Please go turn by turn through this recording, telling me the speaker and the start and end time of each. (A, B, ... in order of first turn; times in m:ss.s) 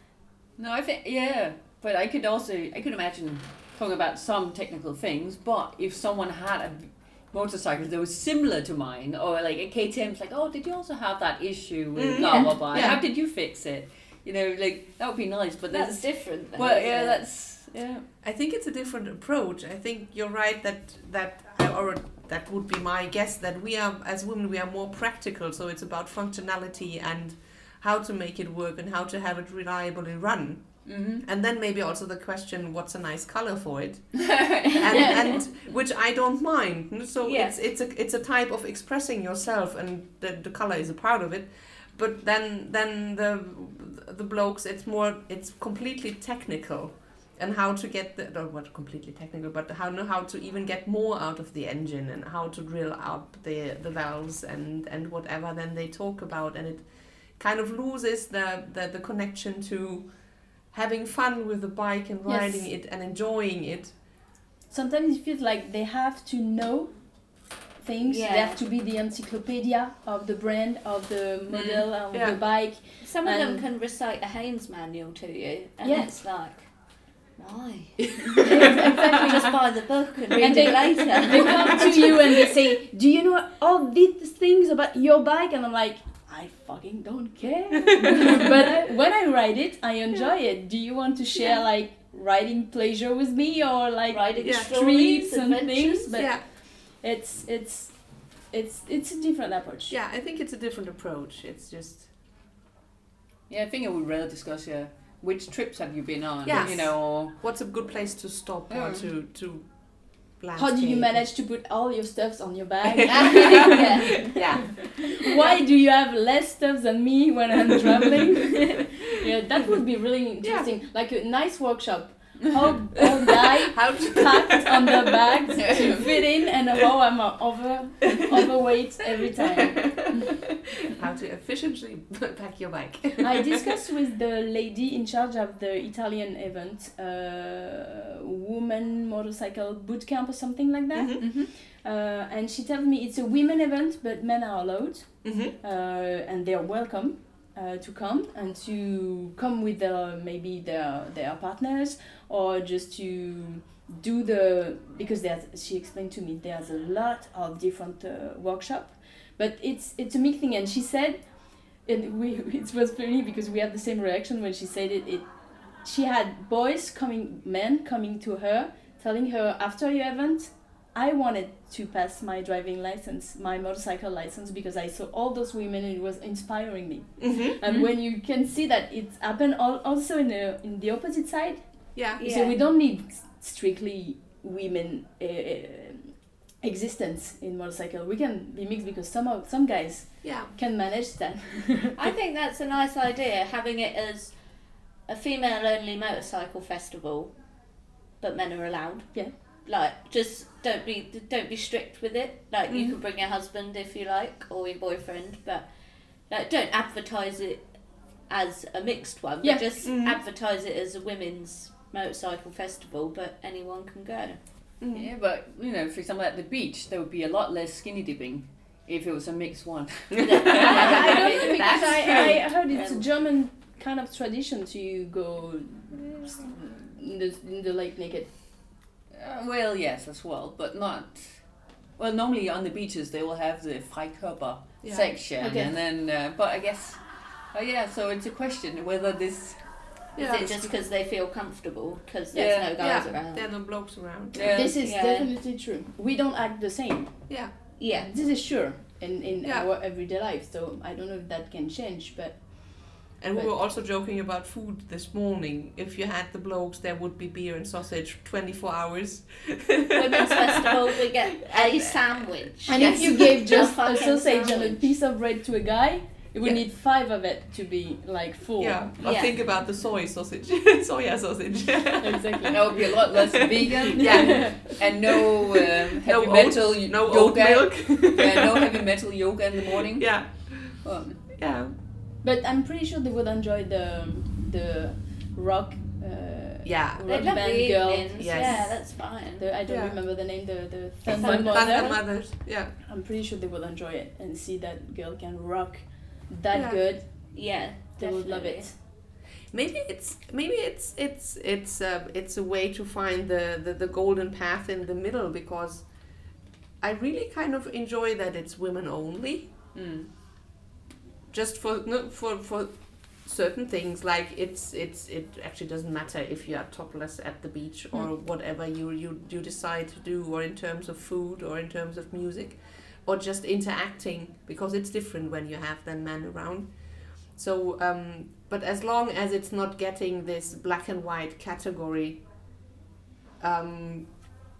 0:00.6-0:18.0 A
0:11.9-0:13.0 B
0:12.2-0:12.6 C
0:15.7-0:17.2 C
0:18.2-1:04.0 B
0:30.8-0:31.2 A
0:34.2-0:35.1 A
0:34.9-0:35.4 C
0:37.2-0:37.6 C
1:02.3-1:02.6 C
1:04.7-1:13.6 D
1:08.0-1:08.6 C
1:11.5-1:11.8 A
1:12.1-1:12.4 B
1:13.0-1:16.7 C
1:15.8-1:16.1 D
1:17.4-1:22.2 C
1:18.4-1:19.5 D
1:20.4-1:40.0 D
1:28.0-1:28.3 B
1:34.1-1:36.2 C
1:34.4-1:34.7 B
1:36.2-1:36.4 B
1:39.9-1:42.1 B
1:43.5-1:47.4 A
1:46.4-1:51.2 B
1:48.7-1:49.1 A
1:50.6-2:10.1 D
1:53.0-1:55.0 B
1:53.1-1:54.4 C
2:00.4-2:00.7 B
2:03.7-2:04.7 B
2:10.9-2:13.6 B
2:13.2-3:11.9 D
2:20.9-2:21.3 B
2:21.2-2:21.5 A
2:25.2-2:25.5 B
2:57.2-2:57.6 B
3:01.9-3:02.2 B
3:02.2-3:02.6 C
3:10.2-3:10.5 B
3:12.0-3:14.4 C
3:15.1-3:17.4 C
3:18.2-3:25.7 C
3:22.7-3:23.0 B
3:26.3-3:27.7 C
3:28.3-3:34.4 C
3:29.4-3:29.8 D
3:29.8-3:30.2 B
3:34.8-3:35.1 B
3:34.9-3:41.3 A
3:40.2-3:43.0 C
3:40.3-3:42.4 B
3:40.6-3:48.3 D
3:49.1-4:00.1 A
3:54.8-3:55.2 B
3:55.4-3:55.7 D
4:00.1-4:00.7 B
4:00.2-4:03.5 C
4:02.3-4:02.7 A
4:02.8-4:04.6 B
4:04.3-4:04.7 A
4:04.3-4:13.5 D
4:04.8-4:05.3 C
4:07.3-4:07.5 B
4:07.8-4:08.1 C
4:13.2-4:23.4 B
4:19.9-4:24.8 C
4:22.6-4:28.9 D
4:28.6-4:33.3 B
4:29.0-4:29.3 C
4:32.0-4:34.6 D
4:32.5-4:41.2 A
4:33.9-4:34.9 B
4:36.0-4:38.6 B
4:39.7-4:41.7 B
4:42.2-4:58.8 D
4:46.6-4:47.1 B
4:47.1-4:49.4 C
4:48.2-4:48.8 B
4:49.7-4:50.0 B
4:51.1-4:52.0 C
4:51.2-4:52.7 B
4:56.5-4:56.8 B
4:57.3-4:58.7 C
4:59.5-5:09.5 B
5:09.7-5:10.1 A
5:11.3-5:32.2 B
5:33.4-5:34.4 B